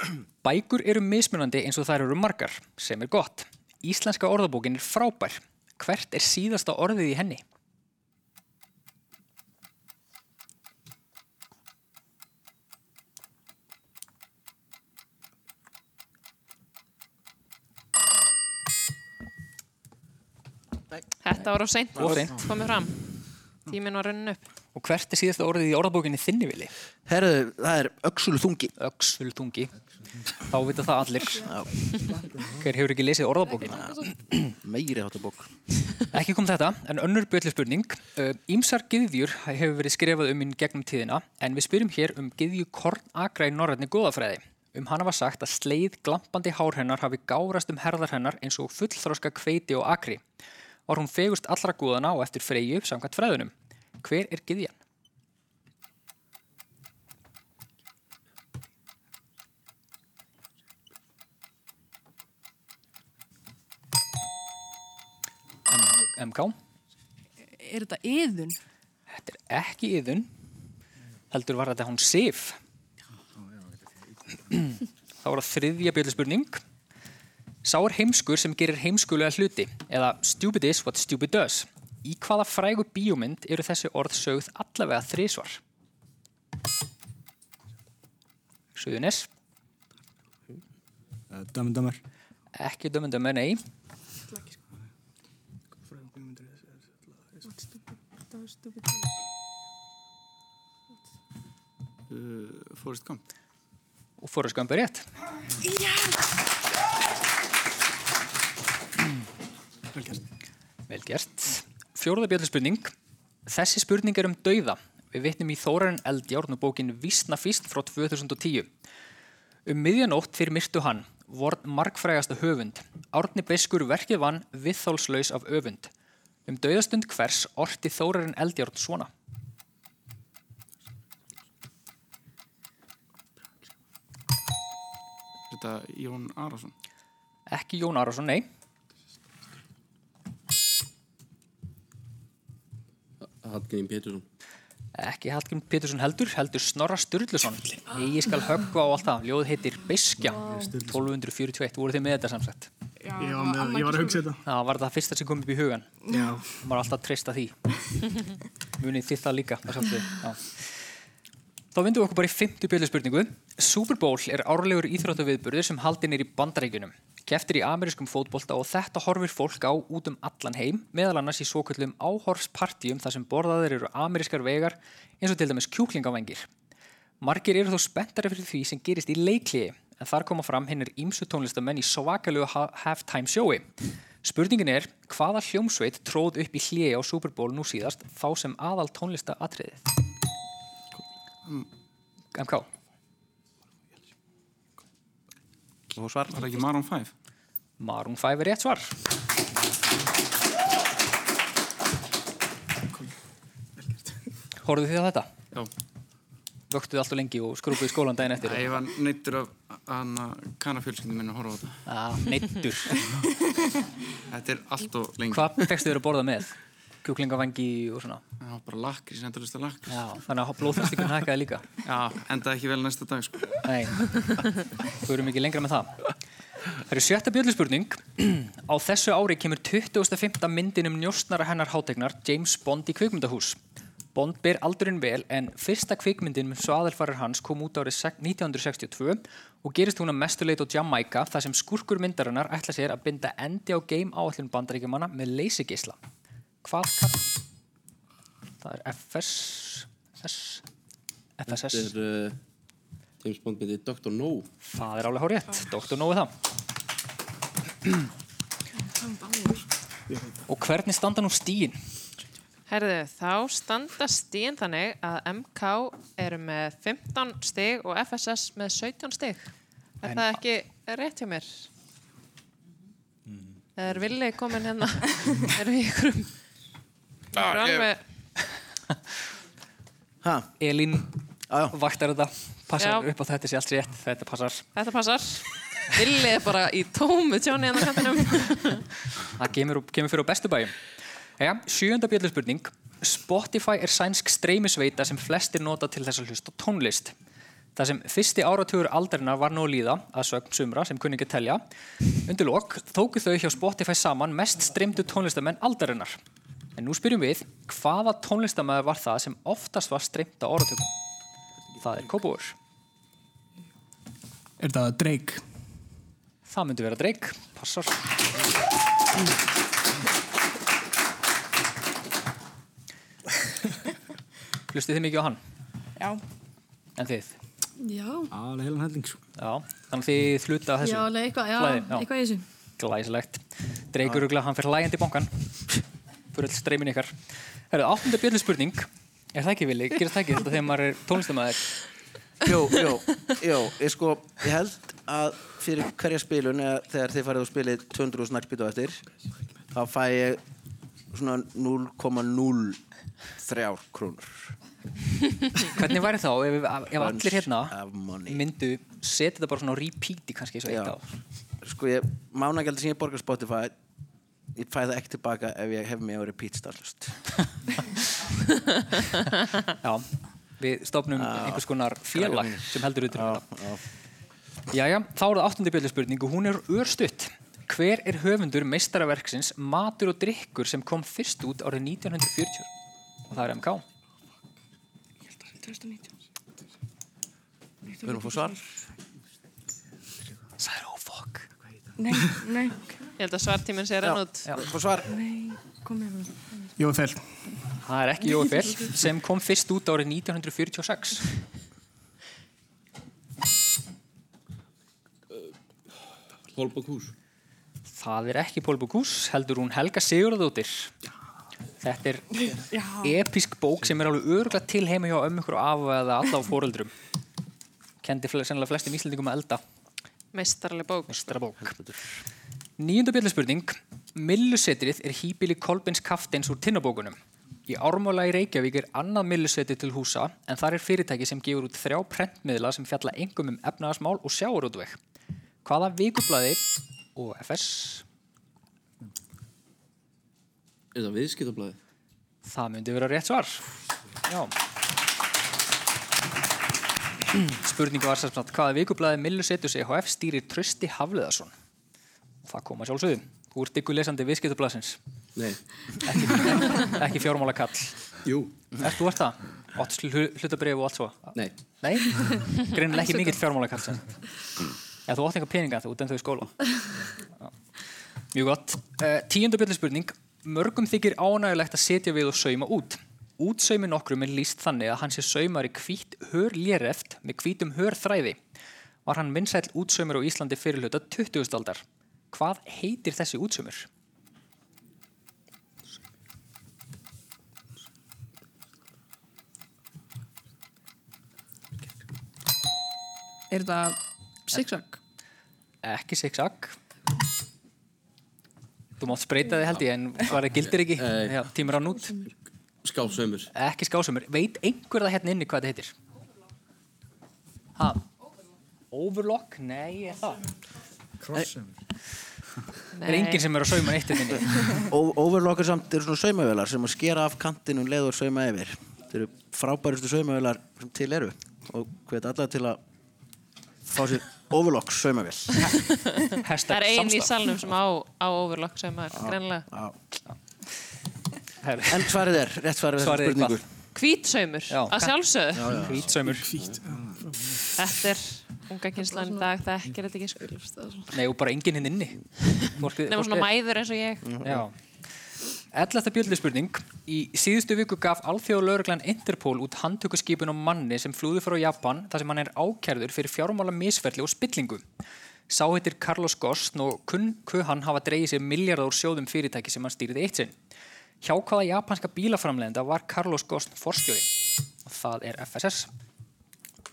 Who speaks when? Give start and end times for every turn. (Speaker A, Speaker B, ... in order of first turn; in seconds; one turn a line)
Speaker A: 0.4-7.4
Speaker B: 21.2-23.1
Speaker A: 22.0-22.4
Speaker B: 23.7-24.4
Speaker A: 24.8-26.7
Speaker C: 27.1-28.7
Speaker A: 28.8-29.7
Speaker A: 30.5-31.4
Speaker C: 31.4-31.7
Speaker D: 32.1-32.5
Speaker A: 32.6-34.5
Speaker C: 33.6-34.1
Speaker C: 34.6-35.5
Speaker A: 36.1-50.2
Speaker A: 50.9-54.8
Speaker A: 65.7-66.6
Speaker E: 67.6-68.5
Speaker A: 69.1-70.3
Speaker A: 71.3-72.6
Speaker A: 75.2-76.6
Speaker A: 77.6-85.6
Speaker A: 88.8-89.3
Speaker D: 91.3-92.0
Speaker A: 92.5-93.6
Speaker E: 94.3-94.6
Speaker F: 95.9-96.8
Speaker E: 98.3-99.0
Speaker G: 102.1-103.2
Speaker A: 104.2-105.1
Speaker F: 109.9-110.2
Speaker A: 110.9-112.9
Speaker A: 113.5-118.7
Speaker A: 119.7-125.9
Speaker A: 126.5-129.1
Speaker G: 135.5-136.7
Speaker A: 137.5-138.5
Speaker H: 143.2-144.2
Speaker A: 144.9-152.7
Speaker D: 150.2-151.1
Speaker E: 153.0-154.3
Speaker F: 153.2-154.4
Speaker A: 154.4-155.9
Speaker E: 156.1-156.4
Speaker A: 156.6-157.6
Speaker A: 158.8-160.8
Speaker A: 161.7-176.5
Speaker A: 177.2-183.7
Speaker A: 184.2-189.9
Speaker A: 192.3-192.7
Speaker C: 195.9-196.4
Speaker G: 196.3-197.1
Speaker A: 197.8-198.9
Speaker F: 203.8-204.1
Speaker A: 204.6-205.3
Speaker A: 206.7-208.8
Speaker G: 208.4-211.8
Speaker A: 211.9-213.0
Speaker G: 214.3-215.5
Speaker A: 215.3-216.5
Speaker A: 217.1-218.2
Speaker G: 218.4-220.0
Speaker A: 219.9-221.7
Speaker G: 221.8-223.6
Speaker A: 223.7-224.0
Speaker A: 225.0-226.0
Speaker A: 226.9-233.6
Speaker A: 234.2-246.0
Speaker A: 246.6-247.3
Speaker A: 248.6-250.6
Speaker A: 251.4-251.9
Speaker H: 251.5-252.4
Speaker H: 253.2-254.5
Speaker A: 254.7-256.3
Speaker E: 259.0-259.6
Speaker F: 260.1-260.4
Speaker A: 260.5-261.8
Speaker B: 262.7-269.5
Speaker B: 270.0-271.7
Speaker A: 270.1-270.3
Speaker B: 273.8-276.3
Speaker B: 277.3-278.0
Speaker C: 280.2-280.5
Speaker A: 280.6-281.1
Speaker C: 281.5-281.8
Speaker A: 281.7-284.7
Speaker B: 282.8-283.1
Speaker B: 284.8-288.9
Speaker A: 289.4-290.8
Speaker A: 291.4-297.1
Speaker A: 297.8-301.6
Speaker A: 302.2-306.2
Speaker A: 306.8-310.9
Speaker A: 311.8-312.6
Speaker F: 314.6-315.4
Speaker A: 316.5-318.0
Speaker A: 324.7-325.4
Speaker A: 327.0-327.4
Speaker I: 327.8-328.2
Speaker D: 328.3-329.2
Speaker A: 329.4-332.1
Speaker I: 330.9-332.4
Speaker A: 332.8-335.3
Speaker A: 336.3-337.1
Speaker A: 337.7-341.7
Speaker C: 342.4-349.0
Speaker C: 349.7-350.4
Speaker C: 351.1-352.8
Speaker C: 353.4-354.5
Speaker A: 355.7-357.7
Speaker C: 357.0-358.4
Speaker A: 358.3-361.0
Speaker C: 360.7-361.0
Speaker C: 361.6-363.8
Speaker C: 364.6-367.2
Speaker A: 369.8-370.1
Speaker A: 370.6-373.4
Speaker C: 371.1-373.8
Speaker A: 374.7-382.7
Speaker A: 383.3-383.8
Speaker E: 385.6-386.0
Speaker C: 388.0-388.6
Speaker A: 390.6-391.5
Speaker E: 392.0-392.8
Speaker B: 393.2-394.5
Speaker C: 394.0-395.1
Speaker E: 395.1-396.3
Speaker F: 396.8-397.3
Speaker A: 397.8-401.3
Speaker H: 406.5-407.1
Speaker A: 407.9-410.9
Speaker A: 411.8-412.4
Speaker E: 412.7-413.1
Speaker A: 413.0-416.9
Speaker A: 418.0-419.6
Speaker B: 420.3-421.3
Speaker A: 421.1-421.8
Speaker C: 421.6-422.1
Speaker A: 422.8-435.0
Speaker A: 435.6-436.6
Speaker A: 437.1-438.0
Speaker H: 440.9-441.8
Speaker A: 442.4-443.6
Speaker A: 447.3-451.5
Speaker A: 452.4-455.0
Speaker A: 456.0-458.0
Speaker H: 458.2-458.5
Speaker A: 458.8-464.1
Speaker A: 465.1-466.5
Speaker A: 468.3-478.4
Speaker A: 479.1-483.9
Speaker E: 493.5-493.9
Speaker E: 494.6-494.8
Speaker A: 495.8-496.8
Speaker A: 499.0-502.2
Speaker H: 500.3-501.4
Speaker H: 502.8-503.5
Speaker A: 503.5-505.9
Speaker A: 507.8-508.0
Speaker A: 508.9-510.4
Speaker D: 511.2-511.7
Speaker B: 512.9-513.5
Speaker A: 513.1-514.6
Speaker C: 514.7-522.8
Speaker C: 523.9-525.7
Speaker A: 526.4-527.3
Speaker B: 526.7-529.7
Speaker C: 529.1-530.0
Speaker A: 531.6-532.2
Speaker C: 531.9-533.6
Speaker A: 533.0-533.6
Speaker B: 534.0-535.8
Speaker A: 534.7-536.5
Speaker C: 535.5-536.1
Speaker F: 536.5-537.0
Speaker D: 536.9-537.4
Speaker B: 537.8-540.6
Speaker A: 541.1-543.5
Speaker B: 543.1-544.4
Speaker C: 544.2-544.6
Speaker A: 544.4-544.8
Speaker A: 545.7-554.8
Speaker A: 555.5-560.6
Speaker A: 561.2-564.3
Speaker A: 564.8-565.9